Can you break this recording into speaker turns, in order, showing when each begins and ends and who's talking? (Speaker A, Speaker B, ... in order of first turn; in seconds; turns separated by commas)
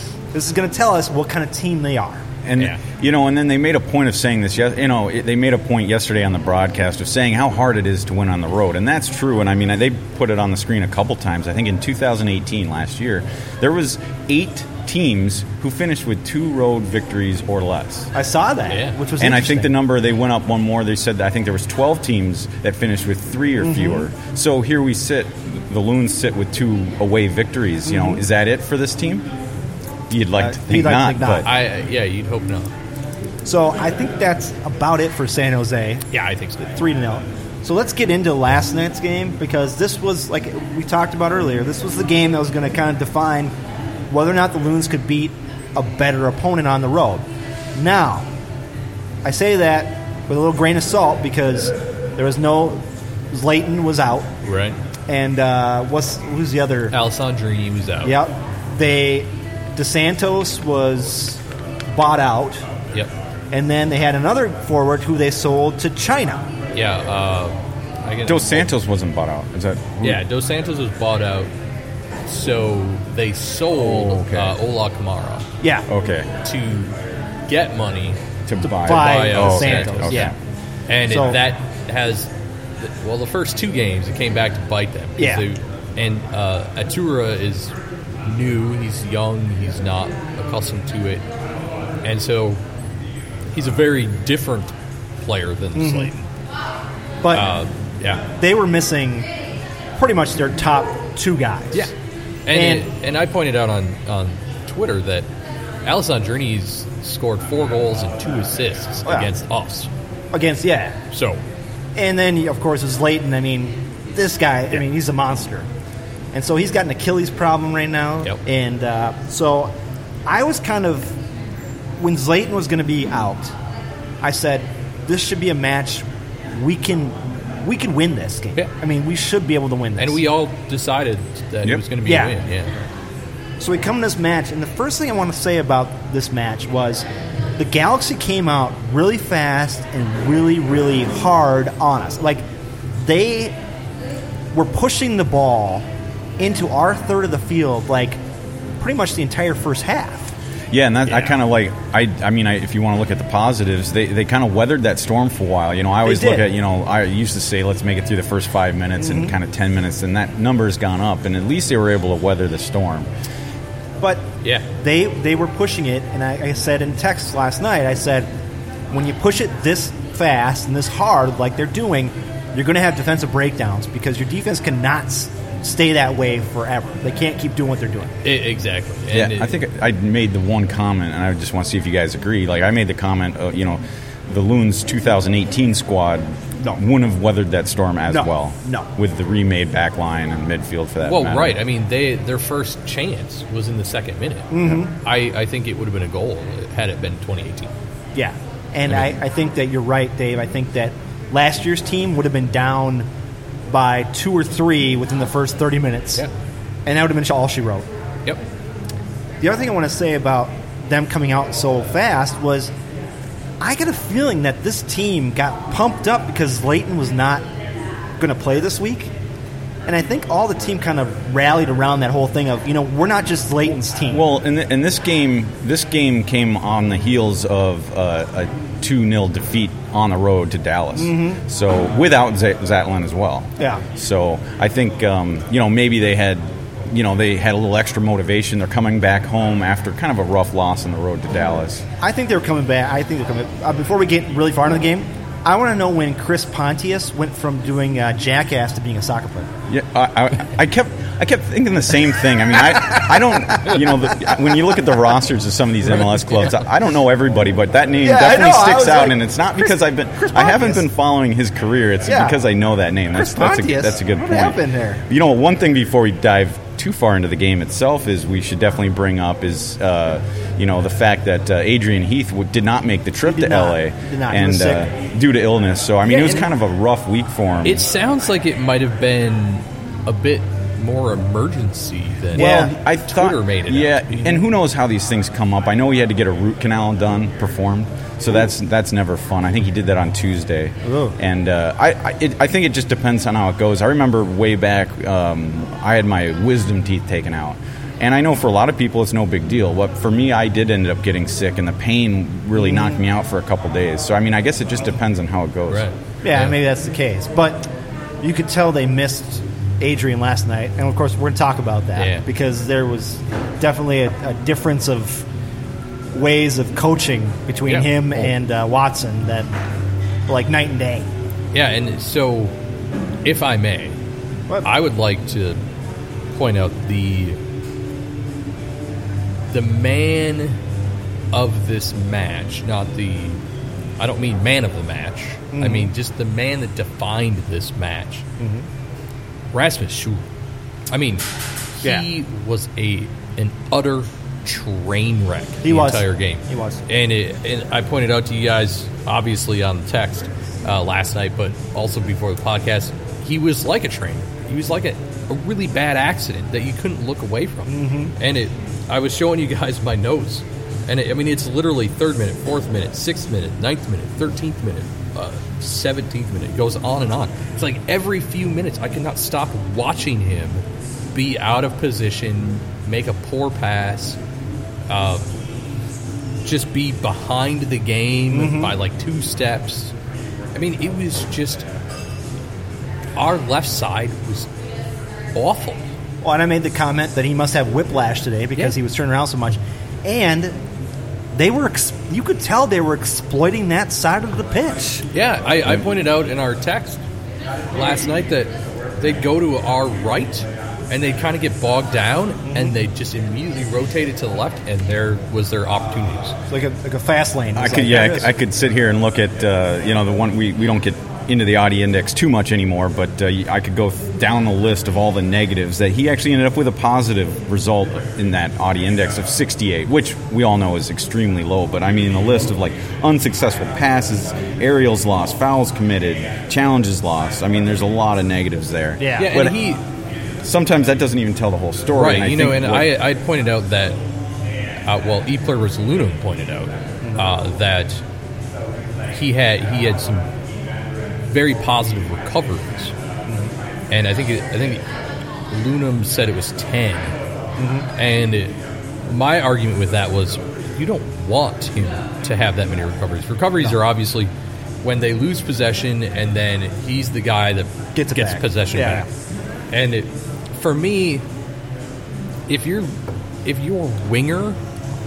Speaker A: 0.3-2.3, Speaker B: 2.5-18.1, Speaker A: 18.1-19.7, Speaker C: 18.7-19.0, Speaker B: 19.2-29.3, Speaker A: 23.6-24.1, Speaker A: 27.9-28.2, Speaker B: 30.1-31.5, Speaker A: 30.4-31.5, Speaker C: 31.4-32.7, Speaker A: 33.5-36.0, Speaker C: 36.1-36.7, Speaker A: 36.6-43.5, Speaker A: 44.1-48.3, Speaker A: 49.2-54.3, Speaker C: 54.4-54.8, Speaker A: 55.1-56.9, Speaker C: 56.9-58.1, Speaker A: 58.0-61.4, Speaker A: 61.9-62.6, Speaker A: 63.5-66.4, Speaker C: 66.7-68.7, Speaker B: 68.3-70.2, Speaker C: 70.0-71.5, Speaker C: 72.3-75.5, Speaker B: 73.8-74.6, Speaker A: 75.6-75.9, Speaker B: 75.9-76.3, Speaker C: 76.4-77.0, Speaker C: 77.5-78.2, Speaker B: 78.5-80.3, Speaker A: 78.6-80.3, Speaker C: 78.8-80.3, Speaker C: 80.9-91.3, Speaker A: 81.0-81.4, Speaker A: 85.2-85.5, Speaker C: 92.0-92.6, Speaker C: 93.5-96.3, Speaker A: 95.8-96.1, Speaker A: 97.2-97.5, Speaker C: 97.3-98.2, Speaker A: 98.4-99.3, Speaker A: 100.0-101.9, Speaker C: 102.5-105.3, Speaker A: 102.5-102.9, Speaker C: 105.8-109.9, Speaker A: 110.3-111.0, Speaker C: 111.1-111.4, Speaker A: 112.0-115.7, Speaker A: 116.3-119.7, Speaker A: 120.3-121.2, Speaker A: 122.0-123.5, Speaker A: 124.2-130.2, Speaker C: 130.0-132.8, Speaker A: 132.1-132.4, Speaker A: 133.6-137.1, Speaker A: 137.6-143.6, Speaker A: 144.5-145.9, Speaker A: 146.4-148.2, Speaker A: 148.8-150.3, Speaker B: 150.7-163.1, Speaker A: 156.1-156.5, Speaker A: 159.0-159.4, Speaker A: 164.0-168.3, Speaker A: 168.9-178.2, Speaker C: 178.2-179.6, Speaker B: 179.1-191.6, Speaker A: 188.1-188.9, Speaker C: 191.0-197.7, Speaker A: 194.5-194.9, Speaker A: 198.2-203.1, Speaker A: 203.7-206.2, Speaker A: 206.9-207.9, Speaker A: 209.4-212.7, Speaker A: 213.6-217.4, Speaker A: 218.2-219.1, Speaker A: 219.9-224.2, Speaker B: 224.1-241.8, Speaker A: 230.9-231.4, Speaker A: 233.6-233.8, Speaker A: 242.0-249.5, Speaker B: 249.7-277.9, Speaker A: 252.7-253.8, Speaker A: 258.0-260.8, Speaker A: 262.1-262.4, Speaker A: 263.1-265.0, Speaker A: 273.2-274.9, Speaker C: 276.1-276.5, Speaker C: 277.6-284.3, Speaker A: 282.4-282.7, Speaker B: 282.4-305.9, Speaker A: 290.8-291.2, Speaker A: 302.6-303.0, Speaker C: 305.7-306.6, Speaker A: 306.2-307.7, Speaker A: 308.2-315.2, Speaker C: 312.0-312.3, Speaker A: 316.1-319.5, Speaker C: 317.7-318.3, Speaker A: 320.3-321.1, Speaker C: 321.5-322.5, Speaker C: 323.2-324.0, Speaker C: 324.6-325.6, Speaker C: 326.3-327.4, Speaker C: 329.5-330.6, Speaker C: 331.3-333.4, Speaker C: 334.0-338.2, Speaker A: 335.5-335.9, Speaker A: 338.4-338.7, Speaker C: 339.5-340.3, Speaker C: 340.9-341.3, Speaker C: 341.8-374.2, Speaker A: 345.6-346.8, Speaker A: 357.7-358.1, Speaker C: 374.9-375.3, Speaker C: 376.4-379.9, Speaker A: 378.3-378.8, Speaker C: 380.5-381.7, Speaker C: 383.2-384.5, Speaker C: 385.4-385.9, Speaker A: 386.2-390.6, Speaker A: 391.3-395.1, Speaker C: 395.1-397.0, Speaker C: 397.7-406.4, Speaker A: 402.5-402.7, Speaker A: 406.5-408.3, Speaker B: 407.6-429.6, Speaker A: 429.0-429.4, Speaker C: 429.2-429.8, Speaker B: 430.4-432.9, Speaker C: 431.9-434.0, Speaker C: 434.9-438.0, Speaker C: 439.1-440.3, Speaker C: 441.3-442.9, Speaker A: 443.3-443.5, Speaker C: 443.9-444.8, Speaker C: 445.5-447.2, Speaker A: 447.6-447.9, Speaker C: 448.0-454.3, Speaker C: 454.8-459.1, Speaker A: 458.0-459.1, Speaker C: 459.7-461.2, Speaker C: 462.5-464.6